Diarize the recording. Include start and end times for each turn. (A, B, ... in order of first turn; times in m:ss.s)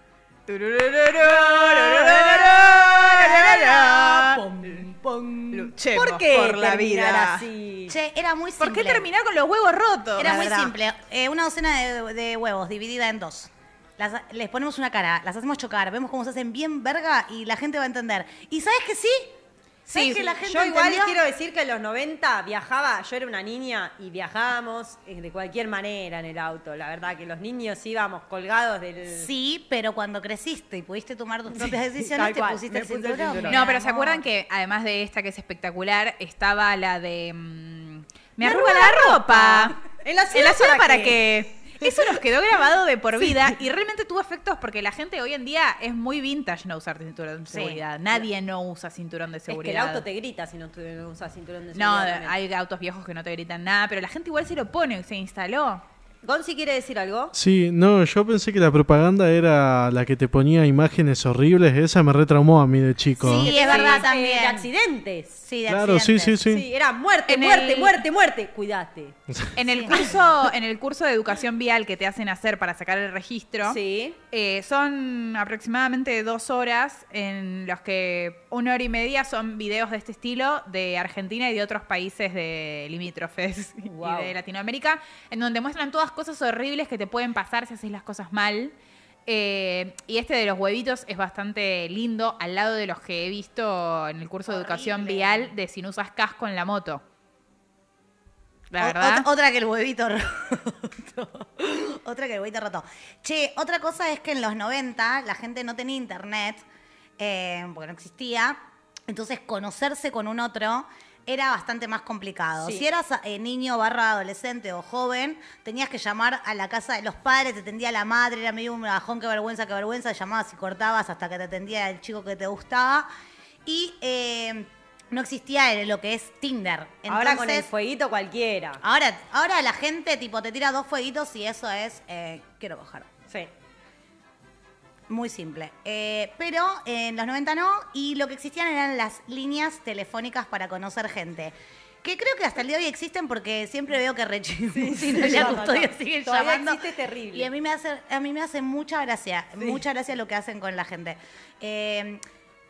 0:00.5-0:04.4 A
0:01.3-0:05.7 B
0:05.5-0:07.4 A
0:05.9-0:08.0 C
0:07.9-0:09.1 B
0:08.6-0:10.7 A
0:10.2-0:19.3 B
0:19.9-0:21.2 B
0:20.0-0:29.3 C
0:29.1-0:34.2 B
0:31.5-0:33.6 C
0:33.5-0:39.8 A
0:38.4-0:41.2 C
0:40.3-0:50.0 A
0:47.5-0:47.8 B
0:49.5-0:52.4 C
0:51.8-0:55.8 A
0:56.2-0:57.3 C
0:57.4-1:03.5 D
1:03.2-1:04.7 B
1:03.2-1:05.4 C
1:03.6-1:04.0 A
1:05.4-1:06.4 B
1:05.7-1:06.7 D
1:06.5-1:09.2 C
1:07.3-1:08.0 A
1:09.6-1:13.8 A
1:09.6-1:10.0 B
1:13.6-1:14.2 C
1:14.3-1:28.7 A
1:23.8-1:24.3 C
1:29.3-1:37.0 A
1:34.5-1:35.5 B
1:38.7-1:39.3 A
1:38.8-1:46.6 B
1:47.2-2:03.1 B
2:03.6-2:07.7 B
2:07.1-2:08.8 C
2:08.8-2:13.1 B
2:15.1-2:26.8 B
2:24.8-2:27.5 C
2:27.3-2:32.2 B